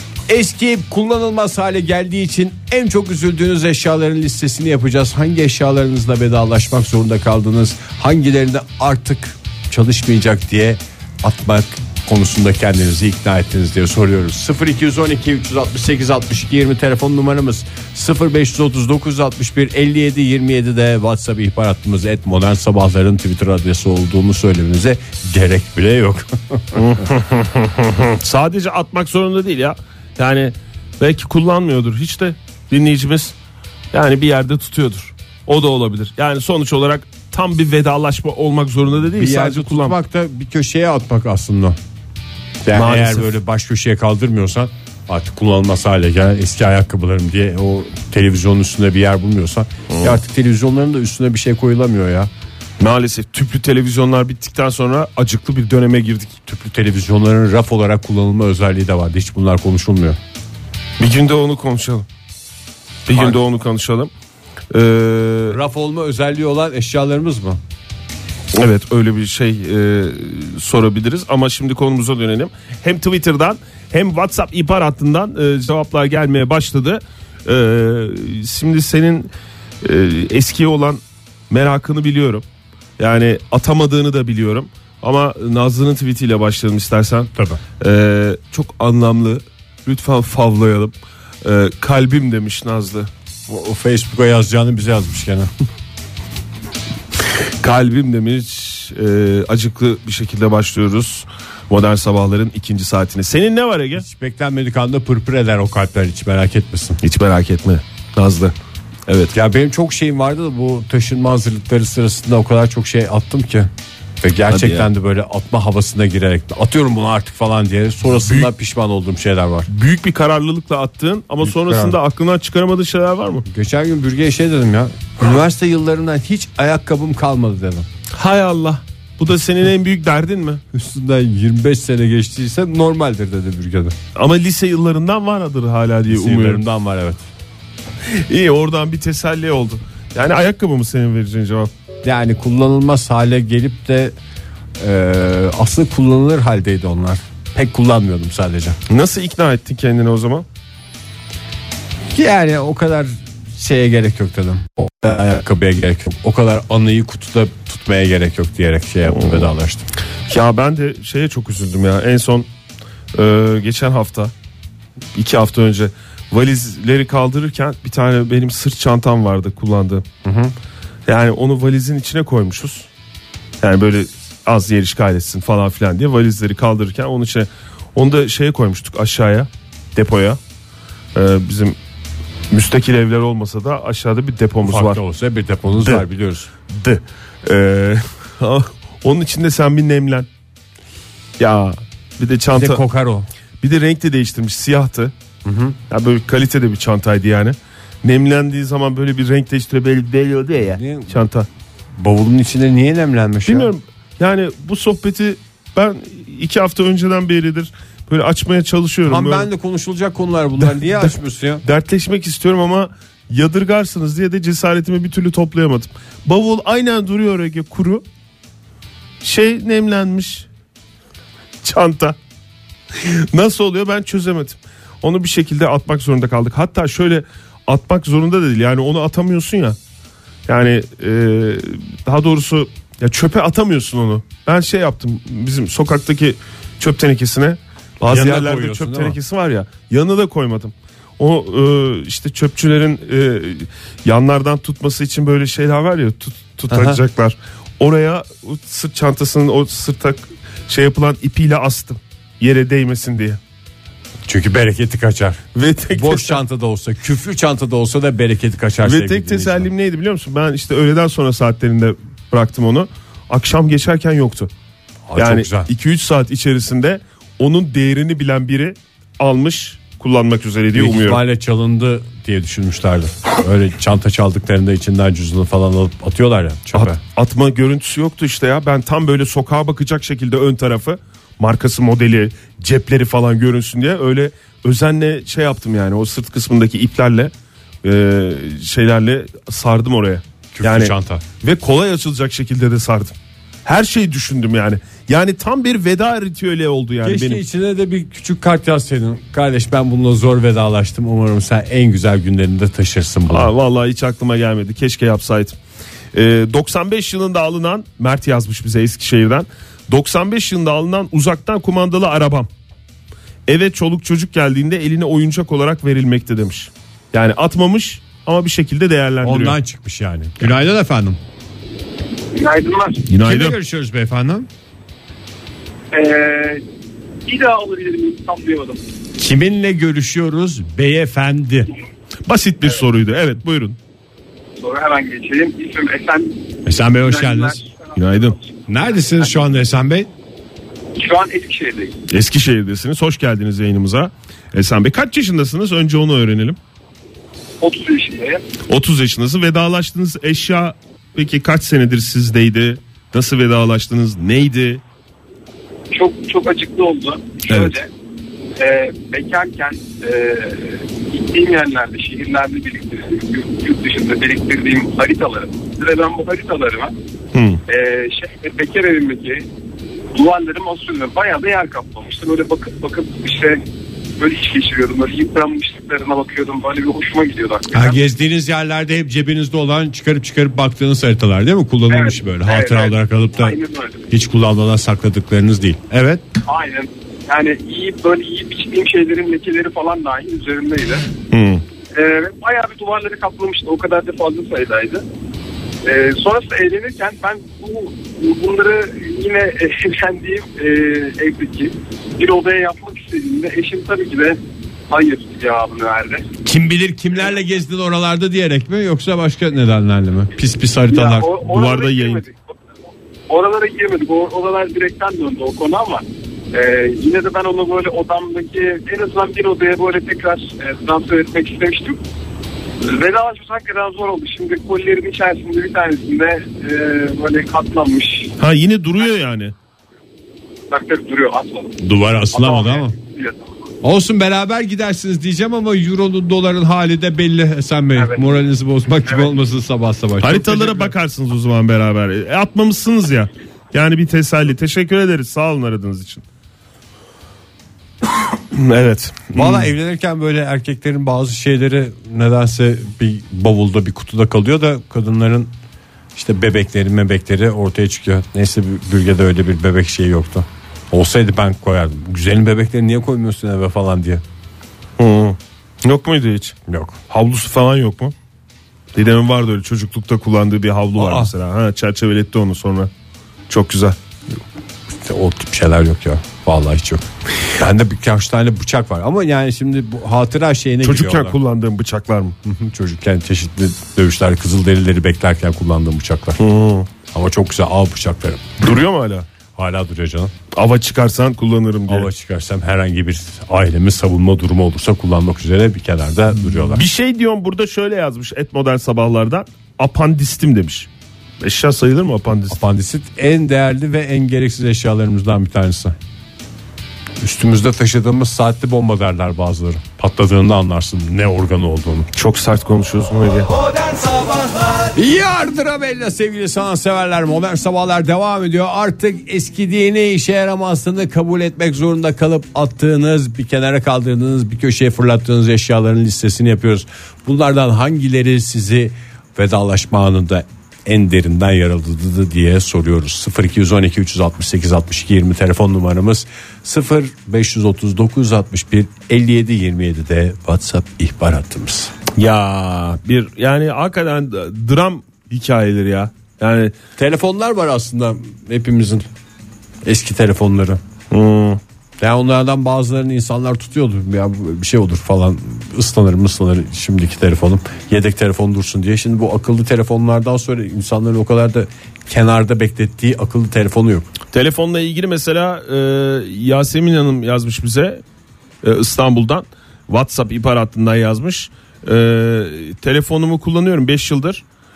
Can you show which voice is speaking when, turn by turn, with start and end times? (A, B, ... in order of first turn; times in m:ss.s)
0:00.3-0:26.8 A
0:26.7-0:33.3 B
0:33.9-0:40.0 B
0:39.2-0:41.8 A
0:42.6-0:52.3 A
0:42.7-0:43.3 B
0:49.9-0:50.2 B
0:52.8-0:56.4 B
0:56.5-1:00.2 A
1:01.0-1:02.0 B
1:03.0-1:04.1 B
1:04.7-1:05.6 B
1:05.5-1:07.6 A
1:08.5-1:19.3 B
1:19.8-1:22.4 B
1:23.0-1:33.1 B
1:33.5-1:35.5 A
1:37.4-1:44.0 B
1:44.0-1:47.0 A
1:47.0-1:48.5 B
1:49.1-1:49.3 B
1:49.3-1:53.7 A
1:54.2-1:59.7 A
1:54.5-1:54.9 B
1:58.2-1:58.5 B
1:59.7-2:03.4 B
2:01.4-2:02.0 A
2:03.5-2:07.8 A
2:08.1-2:10.6 B
2:10.7-2:14.0 A
2:14.1-2:16.6 B
2:16.1-2:17.2 A
2:18.0-2:21.7 B
2:22.0-2:24.1 A
2:24.8-2:28.8 A
2:28.9-2:30.4 B
2:32.1-2:39.8 A
2:39.1-2:39.5 B
2:40.3-2:42.5 B
2:43.1-2:44.3 B
2:45.1-2:50.0 B
2:50.2-2:50.5 A
2:51.0-2:52.9 B
2:53.6-3:00.4 B
3:01.1-3:01.8 B
3:02.5-3:05.0 B
3:04.6-3:06.5 A
3:05.7-3:06.0 B
3:06.7-3:10.3 B
3:11.4-3:12.8 B
3:12.5-3:13.3 A
3:13.6-3:15.1 B
3:15.4-3:15.8 A
3:15.9-3:21.5 B
3:20.6-3:21.2 A
3:22.0-3:23.7 A
3:23.4-3:29.5 B
3:29.0-3:31.6 A
3:30.8-3:38.0 B
3:39.2-3:40.5 B
3:41.6-3:42.2 B
3:42.9-3:49.8 B
3:50.5-4:13.4 B
3:58.0-3:59.2 A
4:06.7-4:07.0 A
4:14.2-4:19.7 A
4:15.5-4:16.4 B
4:18.8-4:24.5 B
4:25.1-4:25.7 A
4:25.2-4:31.2 B
4:30.7-4:37.0 A
4:36.7-4:57.4 B
4:50.5-4:51.2 A
4:57.0-5:03.5 A
5:03.3-5:05.6 B
5:06.1-5:12.5 B
5:13.5-5:19.6 B
5:19.2-5:21.2 A
5:22.3-5:23.0 C
5:23.1-5:23.6 B
5:23.2-5:24.5 A
5:25.9-5:26.6 C
5:27.2-5:28.8 C
5:29.2-5:31.7 A
5:32.2-5:33.8 B
5:34.6-5:38.4 C
5:36.6-5:37.6 A
5:37.9-5:38.4 B
5:38.7-5:40.1 A
5:41.0-5:42.0 C
5:42.1-5:46.6 B
5:47.6-5:48.4 C
5:48.6-5:54.8 B
5:55.9-5:57.9 C
5:57.5-5:57.8 B
5:58.6-6:06.9 C
6:07.3-6:07.6 B
6:07.7-6:09.4 C
6:10.1-6:13.6 C
6:14.2-6:18.0 C
6:17.7-6:23.6 A
6:21.9-6:24.0 C
6:24.1-6:26.2 A
6:26.4-6:31.1 C
6:31.3-6:31.6 B
6:31.9-6:35.0 C
6:35.8-6:46.3 C
6:46.4-6:51.3 A
6:50.9-6:52.5 C
6:51.4-6:52.2 B
6:53.3-7:02.0 C
7:02.8-7:08.3 C
7:08.4-7:09.5 B
7:10.7-7:11.8 C
7:11.8-7:13.0 A
7:12.3-7:13.4 C
7:13.8-7:20.9 A
7:18.0-7:18.4 C
7:20.2-7:26.2 B
7:28.3-7:29.7 B
7:29.3-7:35.5 A
7:36.2-7:44.2 A
7:45.0-7:46.6 B
7:46.7-7:47.0 A
7:47.1-7:48.1 B
7:48.9-7:52.9 B
7:51.0-7:51.3 A
7:53.5-7:54.0 B
7:54.9-8:01.4 A
8:00.8-8:02.4 B
8:02.4-8:06.4 A
8:06.4-8:06.9 B
8:07.1-8:08.6 A
8:08.6-8:09.3 B
8:09.6-8:10.3 A
8:10.5-8:12.1 B
8:11.9-8:16.8 A
8:16.5-8:20.9 B
8:21.4-8:22.6 B
8:22.5-8:26.0 A
8:27.2-8:32.1 A
8:32.1-8:33.5 B
8:34.8-9:01.9 A
9:02.1-9:06.7 B
9:07.0-9:09.1 A
9:09.8-9:10.8 A
9:11.1-9:11.6 B
9:12.0-9:24.1 A
9:24.3-9:28.0 B
9:28.6-9:34.4 B